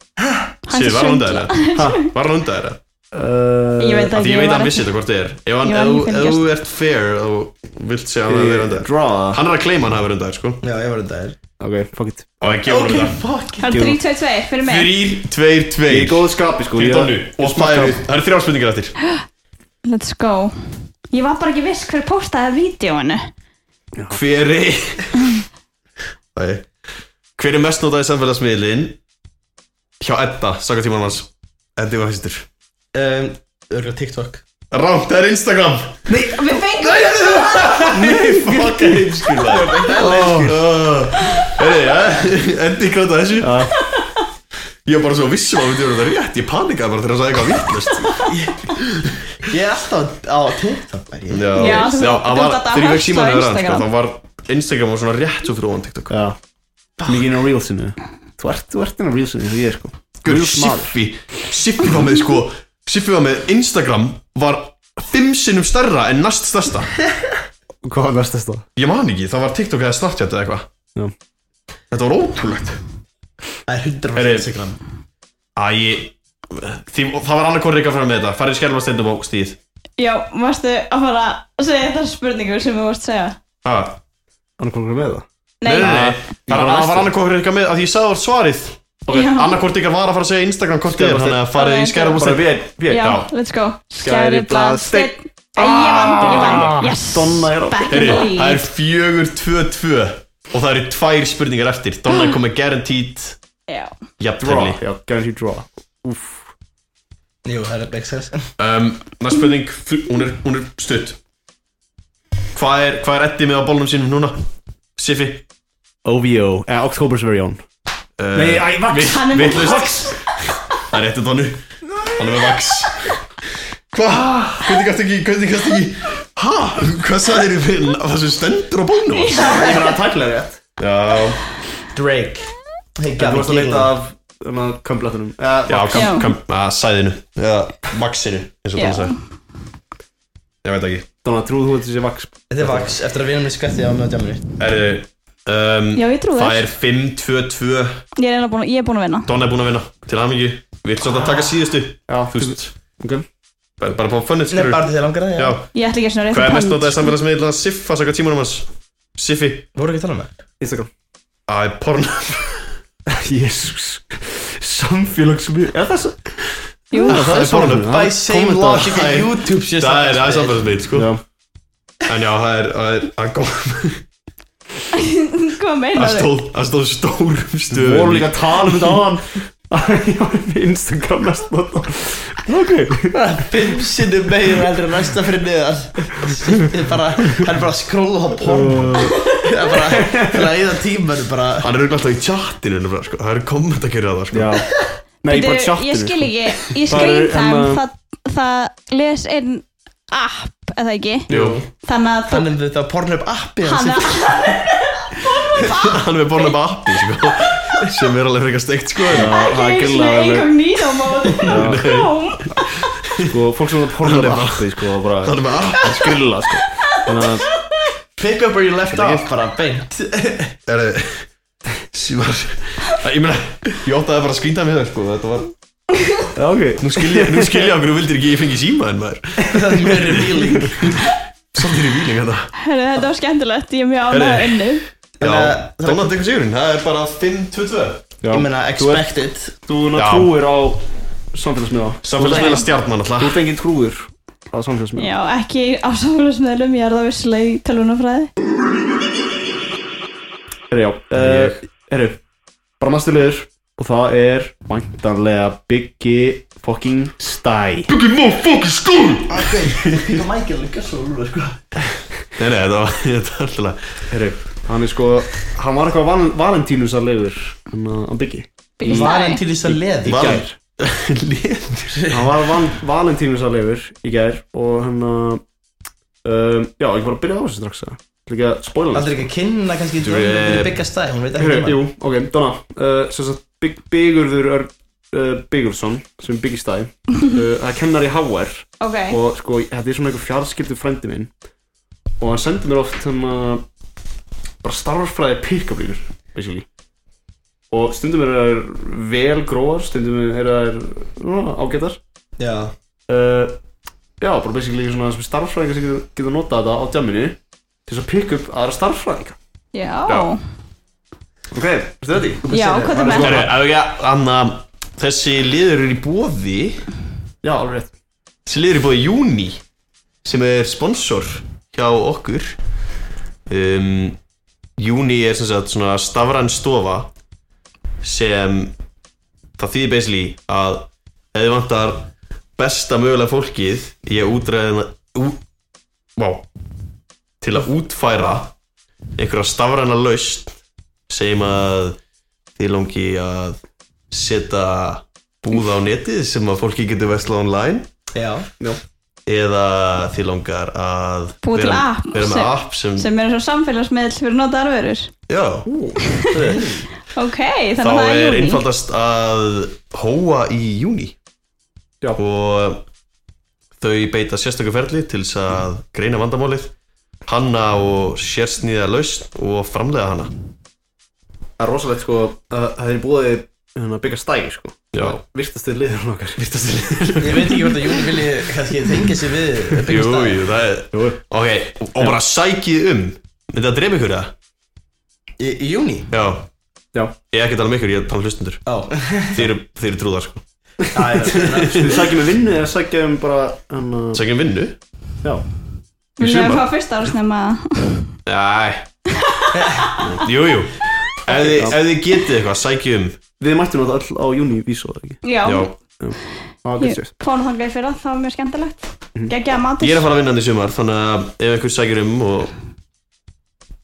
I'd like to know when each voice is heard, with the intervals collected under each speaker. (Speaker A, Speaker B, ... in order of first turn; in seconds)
Speaker A: 0.2-0.5, 10.6-11.3, 12.6-13.7, 32.9-34.4, 36.8-40.6, 48.2-48.7, 49.4-51.9, 57.0-57.2, 73.7-74.8, 107.4-108.5, 129.3-130.5, 131.9-133.9, 142.5-144.4, 154.5-155.6, 159.7-160.3, 167.8-170.8, 183.1-191.7, 201.3-201.6, 202.3-204.5, 218.2-220.5, 229.5-230.9, 235.2-236.2, 238.3-239.5, 259.3-261.8, 268.8-270.4, 271.9-272.3, 278.9-281.8, 302.4-302.7, 312.4-313.5, 348.1-348.5, 356.4-356.8, 377.2-380.5, 385.4-386.1, 388.6-389.5, 390.9-392.1, 399.5-399.9
Speaker B: 0.7-2.0, 3.8-4.9, 5.6-6.5, 13.6-14.9, 19.8-20.6, 21.1-23.3, 36.2-37.8, 51.5-53.9, 80.0-83.4, 85.6-86.0, 89.1-89.6, 91.5-92.3, 92.8-98.7, 103.7-103.9, 119.0-120.2, 129.1-129.9, 135.9-136.3, 138.8-139.1, 145.9-146.7, 148.2-149.3, 155.7-157.1, 166.9-167.2, 174.9-176.3, 195.2-201.3, 201.8-202.5, 203.6-206.5, 209.2-212.5, 232.6-234.8, 242.3-242.6, 244.9-248.3, 268.8-269.4, 288.8-289.2, 309.7-310.4, 312.5-313.4, 351.4-355.1, 357.1-358.6, 396.2-398.1, 399.2-400.0, 405.2-405.7, 406.8-410.1
Speaker C: 0.7-2.8, 4.1-10.6, 12.4-13.2, 14.6-18.9, 24.1-25.3, 26.3-26.7, 27.4-29.0, 30.0-32.5, 34.7-36.1, 36.9-43.7, 44.8-49.1, 51.3-56.1, 60.2-67.0, 68.8-70.7, 71.9-72.8, 74.1-74.5, 75.5-79.6, 83.6-84.0, 85.6-93.3, 97.9-103.4, 104.2-104.8, 108.6-111.2, 112.5-114.4, 115.0-115.4, 118.2-120.1, 120.9-123.1, 123.9-129.6, 130.8-131.4, 135.7-139.2, 140.6-141.1, 144.6-148.0, 149.3-152.7, 153.8-155.7, 156.3-159.7, 161.5-162.7, 167.0-168.0, 168.8-171.1, 172.1-174.0, 175.9-179.0, 191.6-194.6, 201.3-201.6, 205.7-209.3, 211.5-213.3, 214.0-214.7, 215.2-216.2, 218.9-219.3, 220.7-221.3, 221.8-225.5, 226.8-231.0, 231.5-232.5, 234.1-238.1, 239.9-240.3, 242.0-243.4, 251.1-251.6, 257.9-260.2, 262.4-263.9, 270.1-272.1, 280.0-280.7, 313.1-316.8, 318.4-319.6, 320.2-322.6, 323.5-324.2, 324.8-327.1, 328.0-328.7, 329.6-335.4, 336.1-336.5, 337.4-338.5, 339.1-342.0, 342.6-347.9, 349.2-353.1, 355.3-355.7, 357.8-361.1, 362.1-362.8, 363.8-366.7, 367.2-370.3, 374.9-375.2, 376.9-377.7, 379.8-384.3, 386.1-386.5, 387.2-388.6, 389.2-390.4, 391.3-391.9, 394.1-394.8, 396.2-396.6, 398.2-398.9, 400.0-403.2, 405.4-405.7, 409.8-412.5
Speaker D: 1.8-2.0, 3.1-4.1, 8.3-9.4, 11.6-12.3, 13.7-14.0, 15.9-18.0, 39.9-40.6, 43.4-43.7, 56.1-56.4, 57.0-61.0, 67.8-68.7, 84.6-85.2, 85.8-87.1, 90.9-91.4, 92.2-93.2, 94.0-98.3, 104.4-106.5, 116.0-117.6, 118.3-119.9, 124.1-124.5, 129.5-130.5, 133.2-136.2, 141.2-142.9, 152.1-153.2, 160.6-160.9, 163.1-166.4, 166.9-169.0, 170.9-171.2, 177.7-183.2, 188.4-189.2, 189.8-190.5, 194.3-194.7, 195.2-196.3, 196.8-197.8, 201.3-201.6, 209.1-210.5, 211.4-211.9, 213.2-217.4, 226.3-227.7, 238.2-239.0, 239.7-245.1, 250.7-252.2, 252.8-257.9, 264.1-269.1, 269.6-270.5, 272.1-275.4, 276.2-279.3, 281.4-291.3, 292.2-293.6, 294.6-296.6, 297.7-302.0, 303.1-303.6, 304.2-309.4, 311.5-312.4, 317.4-317.9, 355.6-356.8, 371.6-377.6, 380.9-381.2, 391.1-394.2, 401.3-401.8, 403.4-405.2, 406.0-407.1